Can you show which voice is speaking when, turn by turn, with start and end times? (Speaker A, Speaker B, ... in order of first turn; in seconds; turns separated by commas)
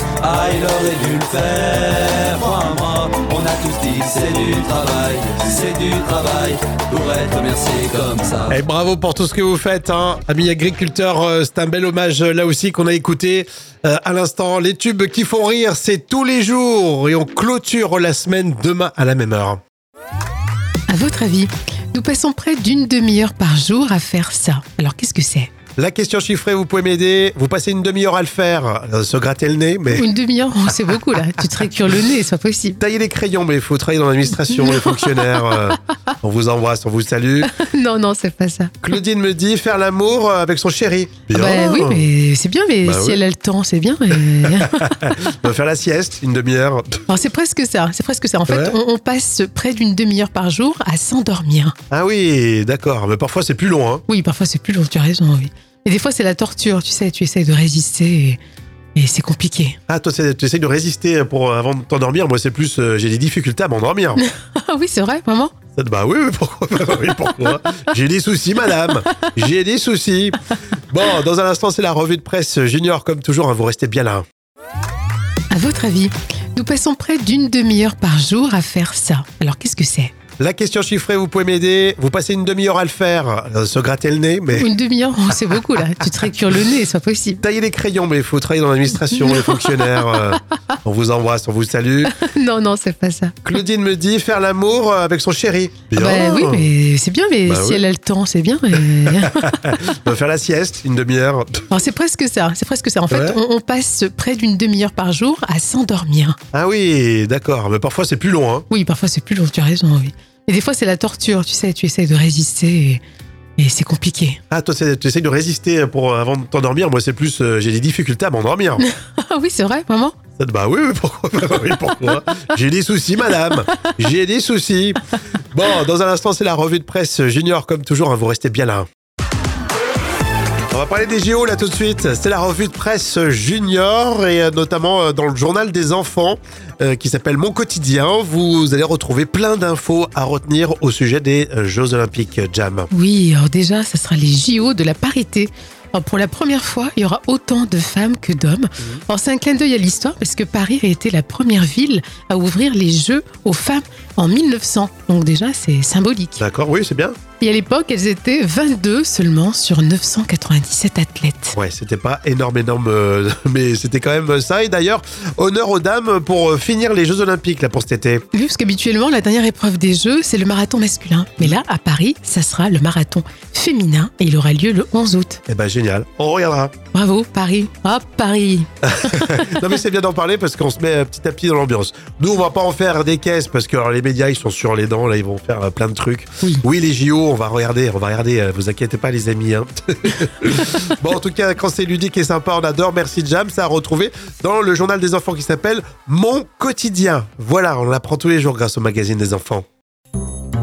Speaker A: 0.2-8.6, Speaker B: 8.5-19.6, Speaker C: 20.9-25.5, Speaker B: 25.7-30.1, Speaker C: 29.9-32.8, Speaker B: 32.8-37.5, Speaker C: 34.5-35.7, Speaker C: 37.4-38.9, Speaker B: 38.8-42.0, Speaker C: 41.3-45.0, Speaker B: 42.8-43.2, Speaker B: 44.8-47.0, Speaker C: 47.1-51.8, Speaker B: 51.9-54.0, Speaker C: 54.1-58.4, Speaker C: 59.0-59.8, Speaker B: 59.9-64.2, Speaker C: 64.2-65.5, Speaker B: 65.7-70.4, Speaker B: 70.9-74.2, Speaker C: 75.5-80.2, Speaker B: 80.4-84.7, Speaker C: 84.5-87.4, Speaker B: 87.4-92.1, Speaker C: 89.1-90.2, Speaker C: 92.0-93.4, Speaker B: 93.4-96.7, Speaker C: 95.9-99.6, Speaker B: 97.5-97.8, Speaker B: 99.6-101.6, Speaker C: 101.7-106.4, Speaker B: 103.1-103.4, Speaker B: 106.5-108.7, Speaker C: 108.7-113.0, Speaker C: 113.6-114.4, Speaker B: 114.5-118.8, Speaker C: 118.8-120.2, Speaker B: 120.3-125.0, Speaker B: 125.5-128.9, Speaker B: 130.7-142.9, Speaker C: 142.9-156.4, Speaker B: 156.4-157.2, Speaker C: 157.4-161.6, Speaker B: 161.6-168.2, Speaker C: 168.3-175.4, Speaker B: 175.5-176.8, Speaker C: 176.9-179.4, Speaker B: 178.9-199.7